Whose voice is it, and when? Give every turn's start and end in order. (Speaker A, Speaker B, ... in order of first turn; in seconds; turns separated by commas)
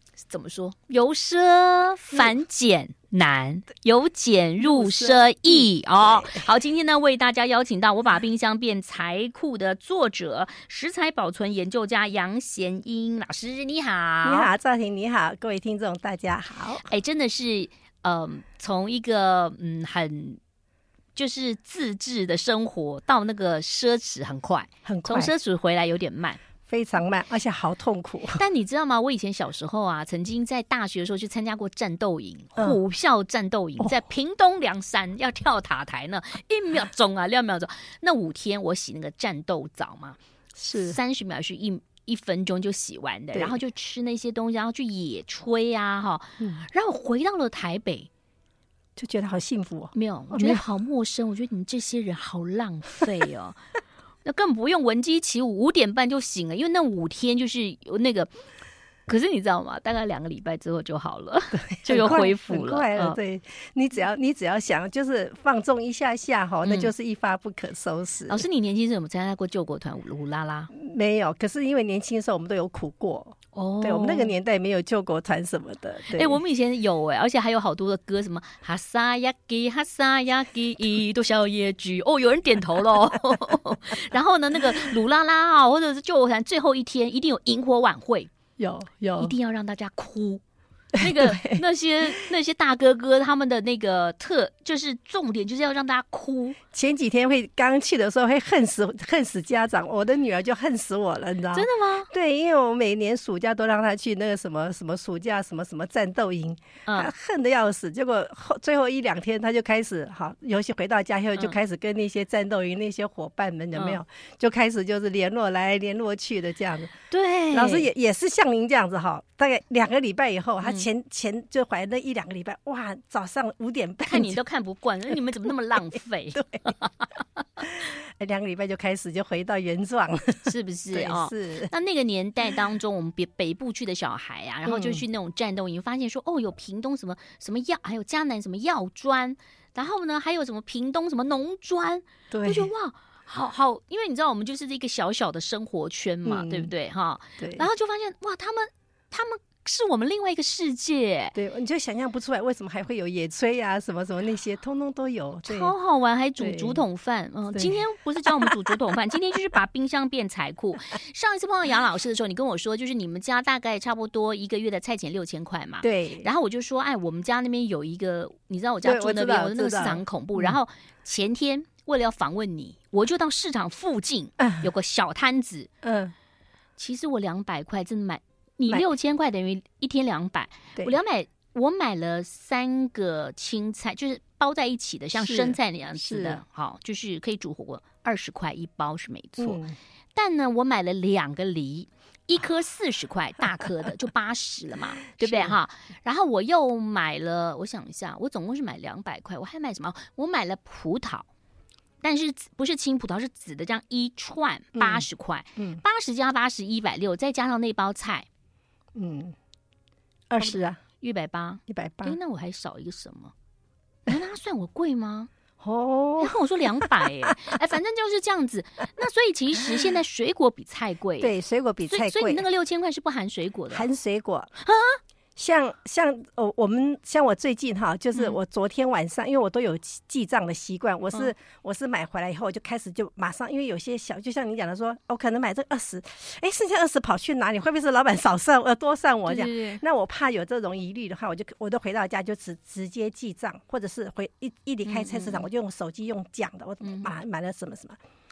Speaker A: 0.3-14.5, Speaker B: 4.6-6.4, Speaker B: 14.2-16.9, Speaker A: 16.9-20.4, Speaker A: 21.1-26.4, Speaker B: 24.8-25.3, Speaker B: 26.6-28.4, Speaker A: 28.3-40.2, Speaker B: 40.6-41.0, Speaker A: 40.7-48.1, Speaker B: 43.3-43.6, Speaker B: 49.0-50.6, Speaker A: 49.9-53.6, Speaker A: 54.2-58.3, Speaker A: 59.1-63.2, Speaker B: 61.7-68.4, Speaker A: 66.6-66.9, Speaker A: 68.3-70.7, Speaker B: 70.7-76.4, Speaker A: 73.5-74.3, Speaker A: 76.1-88.3, Speaker B: 88.6-89.3, Speaker A: 89.2-90.4, Speaker A: 90.9-96.6, Speaker B: 91.0-91.6, Speaker B: 96.7-116.9, Speaker A: 101.5-102.1, Speaker A: 106.9-107.1, Speaker A: 117.1-117.9, Speaker B: 117.5-124.4, Speaker A: 124.1-127.1, Speaker B: 126.3-126.7, Speaker B: 127.7-131.7, Speaker A: 130.4-151.3, Speaker B: 134.7-135.0, Speaker B: 142.3-142.7, Speaker B: 146.2-146.7, Speaker B: 147.4-147.7, Speaker B: 151.3-155.7, Speaker A: 155.4-175.7, Speaker B: 156.4-156.8, Speaker B: 157.5-158.6, Speaker B: 165.8-166.3, Speaker B: 168.8-170.6, Speaker B: 174.4-174.7, Speaker B: 175.8-176.1, Speaker A: 176.8-189.6, Speaker B: 185.2-186.4, Speaker B: 189.4-189.7, Speaker A: 190.1-201.3, Speaker B: 195.2-195.6, Speaker A: 202.0-208.2, Speaker B: 204.7-205.0, Speaker B: 208.9-209.3, Speaker B: 210.3-210.8, Speaker A: 210.4-213.3, Speaker B: 211.7-212.2, Speaker A: 214.1-215.3, Speaker B: 215.6-216.8, Speaker A: 216.2-221.3, Speaker B: 221.2-222.4, Speaker A: 221.9-223.9, Speaker B: 223.7-224.5, Speaker A: 224.6-225.0, Speaker B: 225.3-248.0, Speaker A: 239.3-239.8, Speaker A: 244.8-245.5, Speaker A: 246.8-247.1